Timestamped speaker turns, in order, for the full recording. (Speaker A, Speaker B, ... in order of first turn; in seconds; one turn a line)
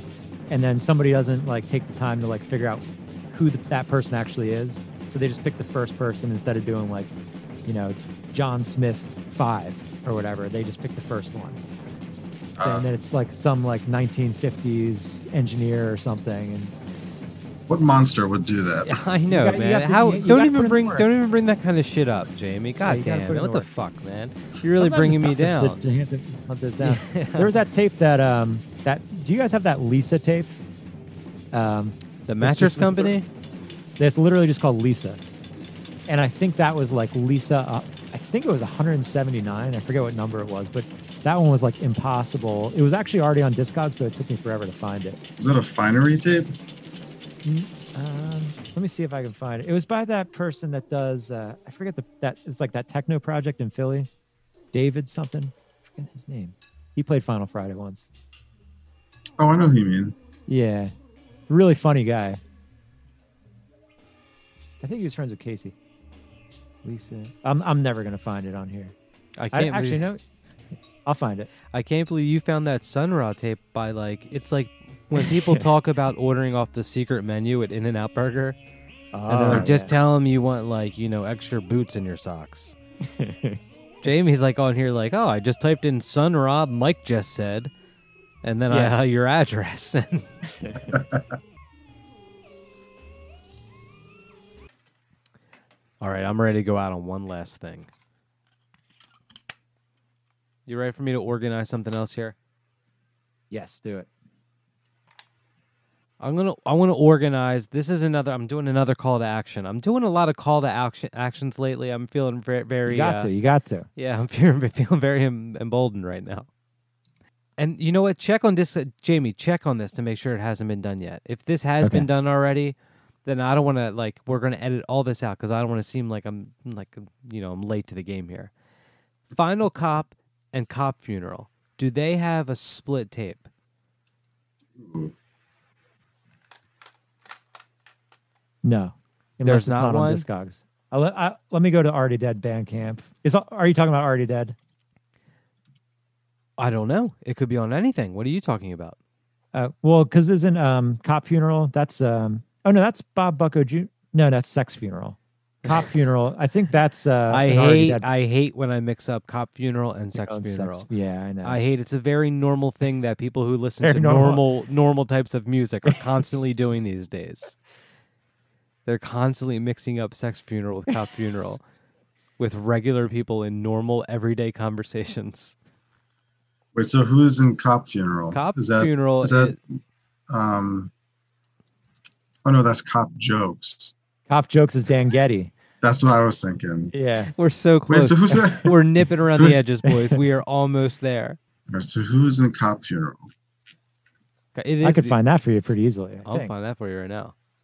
Speaker A: 0.5-7.1
Speaker A: 7.6-11.6
Speaker B: 12.6-12.9
Speaker A: 12.6-16.7
Speaker B: 17.7-18.9
Speaker C: 18.8-25.8
Speaker A: 19.3-21.1
Speaker A: 22.8-23.7
Speaker A: 24.8-30.6
Speaker C: 26.8-27.5
Speaker A: 31.5-33.2
Speaker C: 32.2-33.3
Speaker A: 34.0-35.2
Speaker A: 36.1-45.2
Speaker B: 45.4-46.5
Speaker A: 47.4-54.1
Speaker A: 54.7-58.1
Speaker B: 59.4-60.1
Speaker A: 60.5-60.9
Speaker A: 61.5-62.4
Speaker A: 64.8-65.7
Speaker A: 66.8-68.9
Speaker C: 69.4-70.1
Speaker A: 69.5-70.2
Speaker A: 71.0-71.5
Speaker C: 71.7-78.6
Speaker A: 75.1-75.7
Speaker A: 79.1-79.9
Speaker C: 79.3-82.8
Speaker A: 83.0-84.1
Speaker C: 84.0-87.7
Speaker C: 88.4-90.3
Speaker A: 88.7-89.0
Speaker A: 90.6-91.0
Speaker B: 90.9-91.2
Speaker C: 96.0-97.9
Speaker C: 100.7-102.3
Speaker A: 103.5-104.1
Speaker C: 106.2-113.3
Speaker A: 112.8-113.9
Speaker C: 114.0-116.5
Speaker C: 117.6-128.5
Speaker A: 121.8-122.1
Speaker C: 129.3-133.5
Speaker B: 134.8-135.1
Speaker A: 138.6-144.6
Speaker C: 139.4-140.2
Speaker C: 146.6-149.0
Speaker A: 149.5-158.1
Speaker C: 157.3-160.9
Speaker A: 160.1-161.6
Speaker C: 161.4-167.6
Speaker A: 163.8-164.4
Speaker C: 168.8-171.6
Speaker C: 172.4-175.5
Speaker B: 176.7-179.6
Speaker C: 178.3-179.6
Speaker B: 180.3-180.9
Speaker B: 182.4-183.9
Speaker A: 184.3-185.5
Speaker B: 185.8-186.9
Speaker A: 186.9-187.3
Speaker C: 187.3-191.4
Speaker B: 187.9-188.8
Speaker B: 191.7-193.3
Speaker C: 194.5-195.2
Speaker A: 194.8-196.5
Speaker C: 196.2-197.3